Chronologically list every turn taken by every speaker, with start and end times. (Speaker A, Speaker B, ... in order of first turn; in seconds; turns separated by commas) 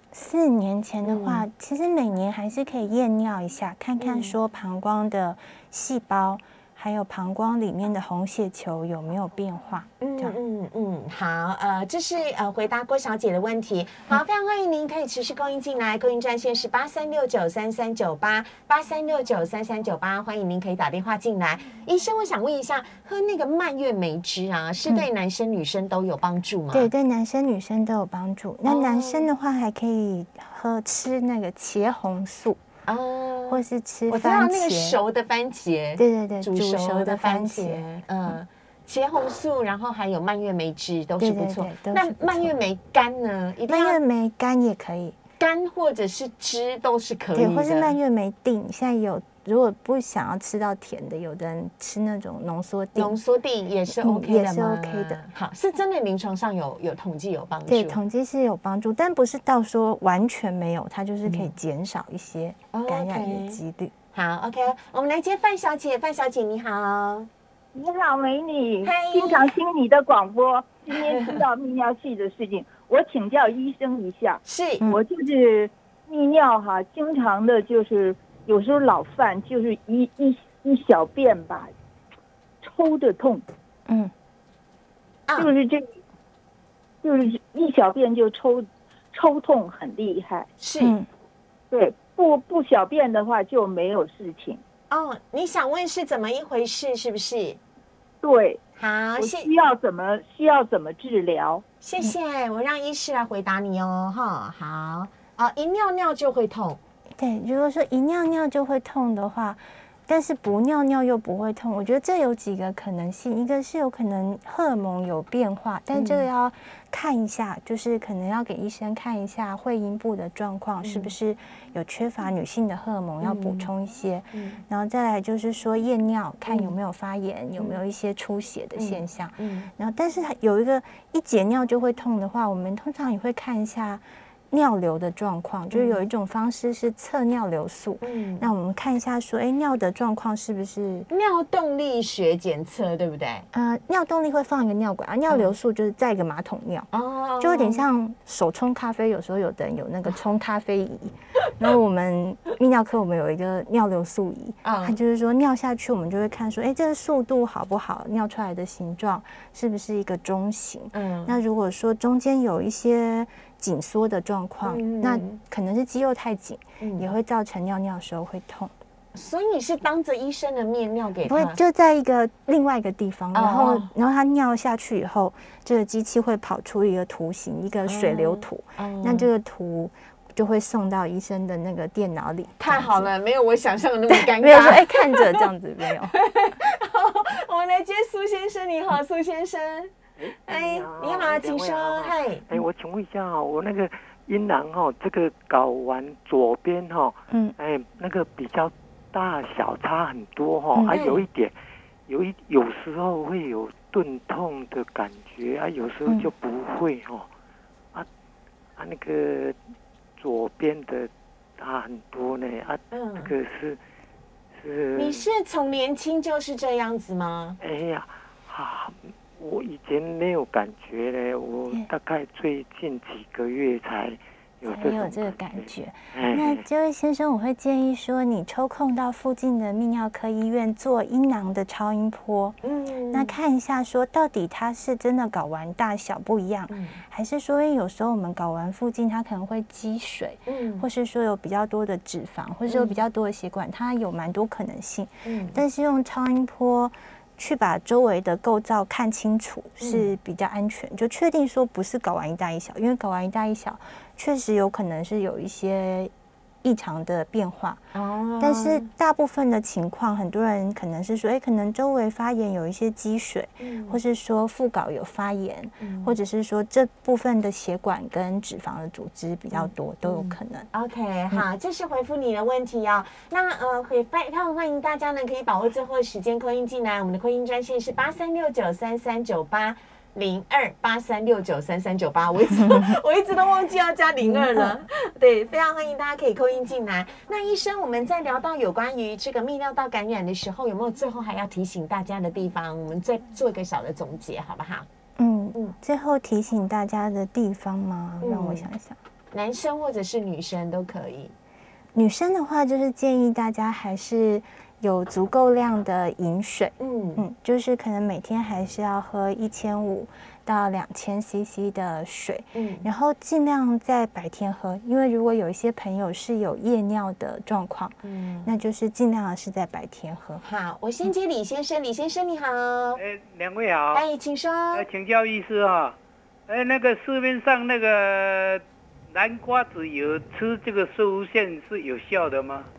Speaker A: 0.1-10.4, Speaker B: 1.0-1.4, Speaker B: 4.0-4.3, Speaker B: 10.0-26.9, Speaker A: 26.7-32.6, Speaker B: 28.7-29.3, Speaker B: 32.9-44.0, Speaker A: 33.5-35.0, Speaker A: 36.0-38.3, Speaker A: 41.2-42.5, Speaker A: 43.7-45.2, Speaker B: 45.4-48.0, Speaker A: 47.3-53.2, Speaker B: 53.0-58.0, Speaker A: 53.9-55.2, Speaker A: 57.7-63.9, Speaker B: 61.2-61.5, Speaker B: 62.7-63.6, Speaker B: 64.1-67.3, Speaker C: 67.7-81.7, Speaker B: 68.8-69.5, Speaker B: 71.1-71.4, Speaker B: 74.5-74.8, Speaker C: 82.6-83.4, Speaker A: 83.9-84.1, Speaker C: 85.4-85.8, Speaker C: 87.0-90.5, Speaker B: 90.6-91.0, Speaker A: 90.8-91.1, Speaker C: 91.7-94.6, Speaker B: 94.9-97.6, Speaker C: 98.2-98.6, Speaker B: 98.8-99.5, Speaker C: 99.2-101.6, Speaker B: 101.8-106.8, Speaker A: 107.2-141.1, Speaker B: 115.9-116.3, Speaker B: 120.8-121.1, Speaker B: 123.2-123.7, Speaker B: 124.3-124.6, Speaker B: 126.5-126.7, Speaker B: 128.8-129.7, Speaker B: 135.7-136.1, Speaker B: 138.0-138.5, Speaker B: 141.1-143.5, Speaker A: 143.5-168.7, Speaker B: 146.9-147.8, Speaker B: 154.6-155.0, Speaker B: 160.9-161.4, Speaker B: 164.6-165.4, Speaker B: 166.8-167.1, Speaker B: 169.1-171.6, Speaker A: 171.3-183.1, Speaker B: 173.3-173.9, Speaker B: 177.9-179.3, Speaker B: 182.6-185.4, Speaker A: 184.1-186.2, Speaker B: 186.1-189.9, Speaker D: 190.2-201.5, Speaker B: 190.5-192.5, Speaker A: 197.3-197.6, Speaker B: 200.9-201.2, Speaker D: 202.1-207.3, Speaker D: 208.8-209.6, Speaker D: 210.2-213.8, Speaker B: 212.9-213.3, Speaker D: 214.6-215.3, Speaker B: 215.0-217.6, Speaker D: 217.6-226.6, Speaker A: 224.7-232.6, Speaker B: 232.6-233.3, Speaker A: 233.1-256.1, Speaker B: 236.7-237.0, Speaker B: 240.5-240.8, Speaker B: 242.7-242.9, Speaker B: 245.2-245.6, Speaker B: 249.8-250.1, Speaker A: 256.6-270.7, Speaker B: 257.9-258.9, Speaker B: 263.6-264.0, Speaker B: 265.8-266.1, Speaker B: 269.5-294.9, Speaker A: 284.2-284.8, Speaker A: 295.2-299.0, Speaker B: 298.2-298.7, Speaker B: 299.3-301.3, Speaker A: 301.9-320.4, Speaker B: 306.8-307.2, Speaker B: 312.6-312.9, Speaker B: 318.0-318.5, Speaker B: 320.4-323.0, Speaker E: 323.0-324.0, Speaker B: 323.9-324.9, Speaker E: 324.7-326.0, Speaker E: 326.5-332.7